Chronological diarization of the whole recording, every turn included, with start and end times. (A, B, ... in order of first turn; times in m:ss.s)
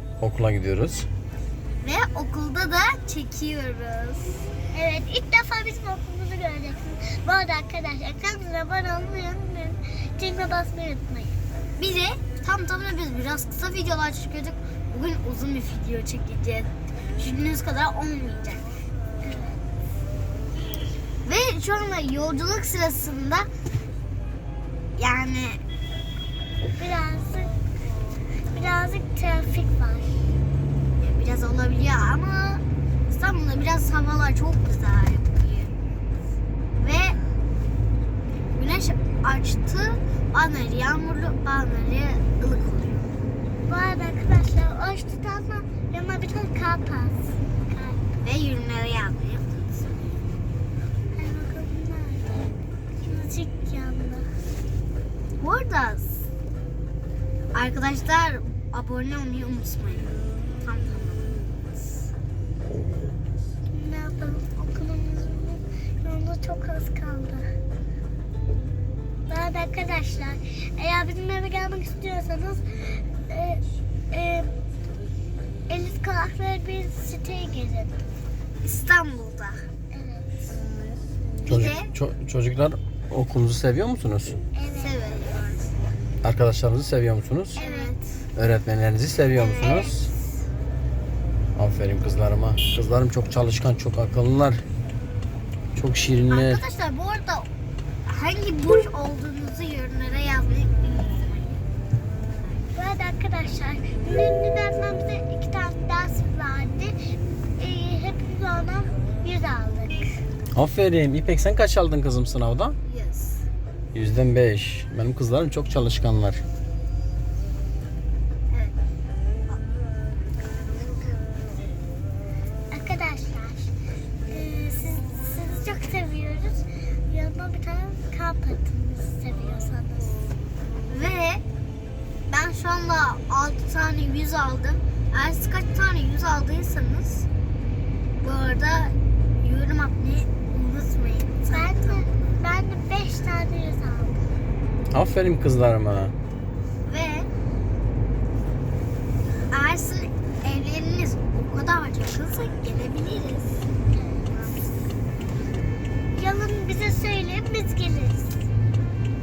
0:00.2-0:01.1 A
0:01.8-0:04.5 B
0:04.7-0:11.4 C
0:11.8-0:18.8 B
0:19.2-0:19.6 C
0:21.2-0:23.5 B
0:25.0-0:25.6 B
0:26.6-0:27.5 C
0:28.5-0:30.3 C
0:31.0-0:35.8 B
0:36.8-0:37.2 B
0:38.5-0:43.1 B
0:43.7-0:48.0 C
0:48.2-0:49.9 B
0:51.1-0:54.3 C
0:55.4-0:56.2 B
0:57.5-1:01.5 B
1:03.7-1:07.5 C
1:09.3-1:14.5 C
1:15.7-1:18.0 C
1:18.6-1:19.7 B
1:19.9-1:20.4 C
1:21.4-1:21.9 B
1:21.5-1:24.4 A
1:24.5-1:25.0 C
1:24.8-1:25.7 B
1:26.2-1:27.6 A
1:27.6-1:28.0 B
1:27.6-1:28.0 C
1:28.4-1:30.1 A
1:29.3-1:30.2 B
1:31.6-1:34.6 A
1:35.8-1:36.6 A
1:36.3-1:37.5 B
1:38.1-1:41.6 B
1:42.8-1:47.0 C
1:47.6-1:50.1 C
1:50.5-1:52.8 A
1:52.8-1:53.5 B
1:53.9-1:56.4 A
1:58.5-1:58.8 B
2:02.7-2:03.7 C
2:04.3-2:10.2 C
2:10.9-2:11.4 B
2:12.3-2:17.3 B
2:18.2-2:22.4 B
2:21.5-2:24.3 C
2:24.9-2:26.1 A
2:26.9-2:27.3 B
2:29.5-2:33.6 B
2:33.9-2:34.3 C
2:36.2-2:38.4 C